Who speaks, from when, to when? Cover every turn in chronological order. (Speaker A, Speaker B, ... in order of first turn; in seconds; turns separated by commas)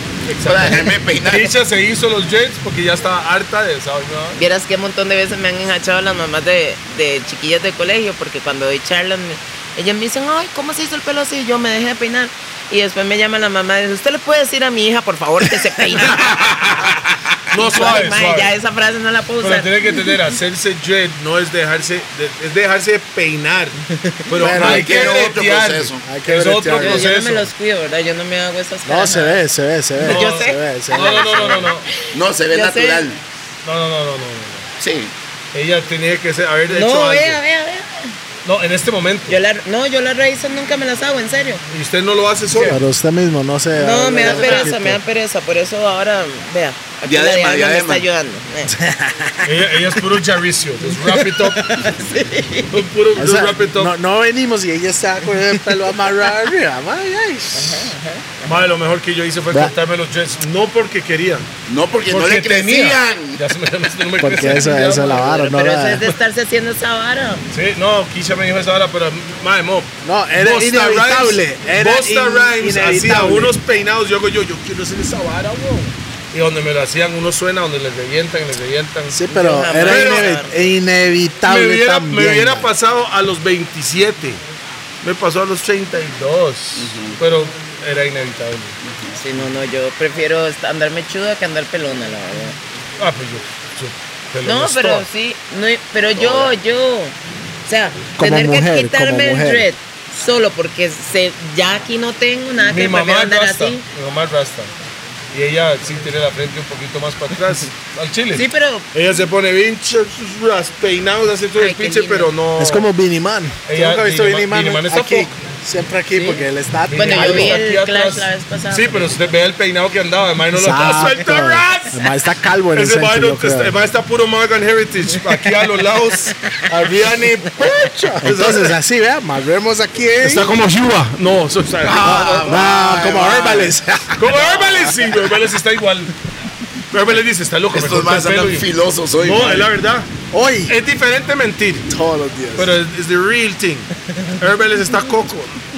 Speaker A: 0.3-4.4, Speaker B: 0.4-1.5, Speaker C: 4.3-16.4, Speaker B: 16.4-16.9, Speaker A: 17.5-18.5, Speaker C: 17.6-19.9, Speaker A: 19.4-27.5, Speaker D: 24.3-25.1, Speaker B: 24.4-26.0, Speaker D: 26.0-27.1, Speaker C: 26.8-29.4, Speaker D: 28.8-31.7, Speaker A: 30.0-31.9, Speaker C: 30.0-33.1, Speaker B: 32.1-33.2, Speaker A: 33.6-34.7, Speaker B: 34.8-35.1, Speaker A: 35.5-37.4, Speaker C: 36.7-38.1, Speaker A: 38.4-39.4, Speaker C: 39.3-41.6, Speaker A: 41.7-42.8, Speaker D: 42.6-45.0, Speaker C: 43.8-48.7, Speaker A: 44.3-44.6, Speaker B: 47.0-48.0, Speaker D: 48.6-49.6, Speaker A: 49.4-51.9, Speaker C: 50.9-52.8, Speaker A: 52.7-53.9, Speaker D: 53.1-57.9, Speaker C: 57.5-58.4, Speaker A: 58.4-61.5, Speaker B: 61.7-63.4, Speaker A: 62.1-65.3, Speaker D: 64.2-66.0, Speaker C: 65.0-67.5, Speaker A: 67.5-79.2, Speaker D: 70.0-73.5, Speaker D: 79.1-82.7, Speaker C: 79.3-80.6, Speaker A: 79.8-80.3, Speaker A: 81.4-84.4, Speaker A: 85.0-88.8, Speaker B: 86.8-87.2, Speaker B: 88.8-89.2, Speaker C: 89.2-92.6, Speaker A: 93.0-95.1, Speaker C: 94.4-103.8, Speaker B: 96.1-96.5, Speaker D: 98.2-99.7, Speaker A: 102.6-104.7, Speaker A: 105.3-112.8, Speaker C: 108.3-108.9, Speaker C: 111.5-112.3, Speaker D: 112.6-117.6, Speaker A: 113.7-115.3, Speaker C: 116.1-116.4, Speaker A: 116.9-122.0, Speaker C: 116.9-119.2, Speaker D: 120.5-123.7, Speaker A: 122.7-128.8, Speaker D: 128.2-130.5, Speaker A: 130.2-132.6, Speaker B: 131.8-133.7, Speaker D: 132.0-135.1, Speaker A: 134.2-136.1, Speaker A: 136.9-138.7, Speaker B: 137.7-139.7, Speaker A: 139.2-140.1, Speaker D: 140.3-140.8, Speaker A: 140.7-141.9, Speaker D: 141.9-142.8, Speaker A: 142.6-145.6